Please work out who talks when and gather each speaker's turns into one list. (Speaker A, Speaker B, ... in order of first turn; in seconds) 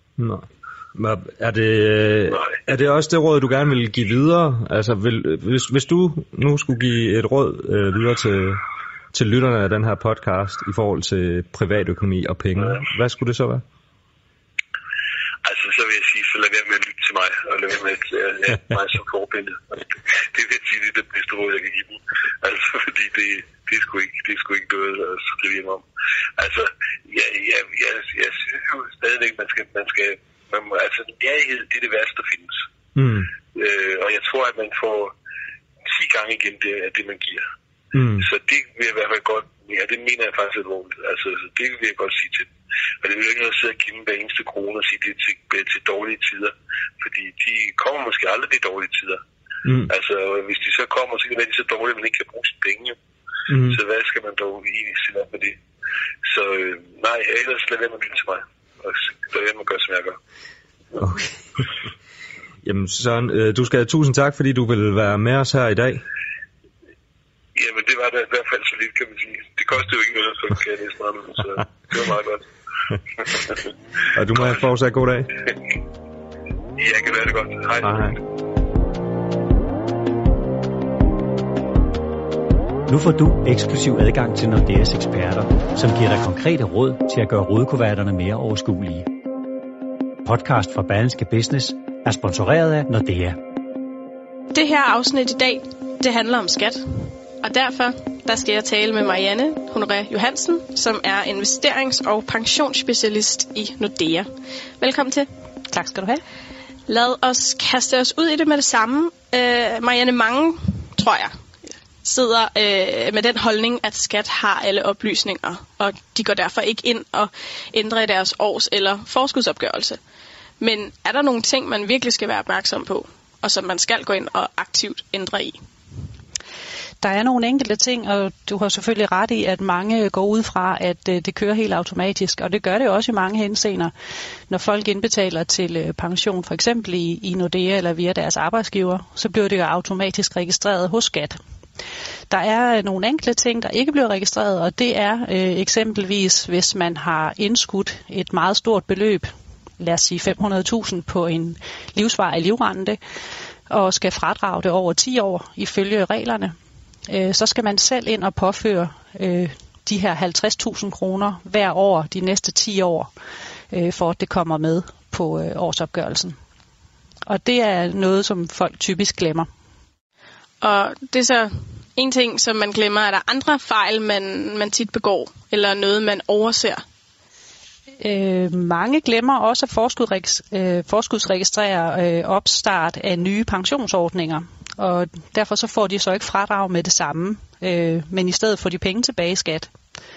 Speaker A: 0.2-8.6, 9.1-13.6, 33.0-33.3, 37.9-38.3, 49.6-49.9, 53.5-53.8, 61.0-61.6, 62.6-66.0, 74.1-75.3, 77.8-78.2
Speaker B: 15.4-25.8, 26.4-32.6, 33.5-35.1, 35.9-37.4, 38.2-42.5, 43.0-49.2, 49.9-52.9, 53.6-55.6, 56.2-60.2, 67.5-72.4, 73.2-73.6, 76.8-78.2
Speaker C: 82.9-89.1, 90.2-93.4
Speaker D: 94.5-96.8, 97.4-104.3, 104.8-105.3, 106.9-111.3, 112.0-120.0, 120.6-125.6, 170.6-176.8
Speaker E: 105.7-106.2, 127.0-133.9, 134.5-141.4, 142.3-153.0, 153.7-156.5, 157.1-163.1, 163.7-166.3, 167.2-169.5, 178.0-189.7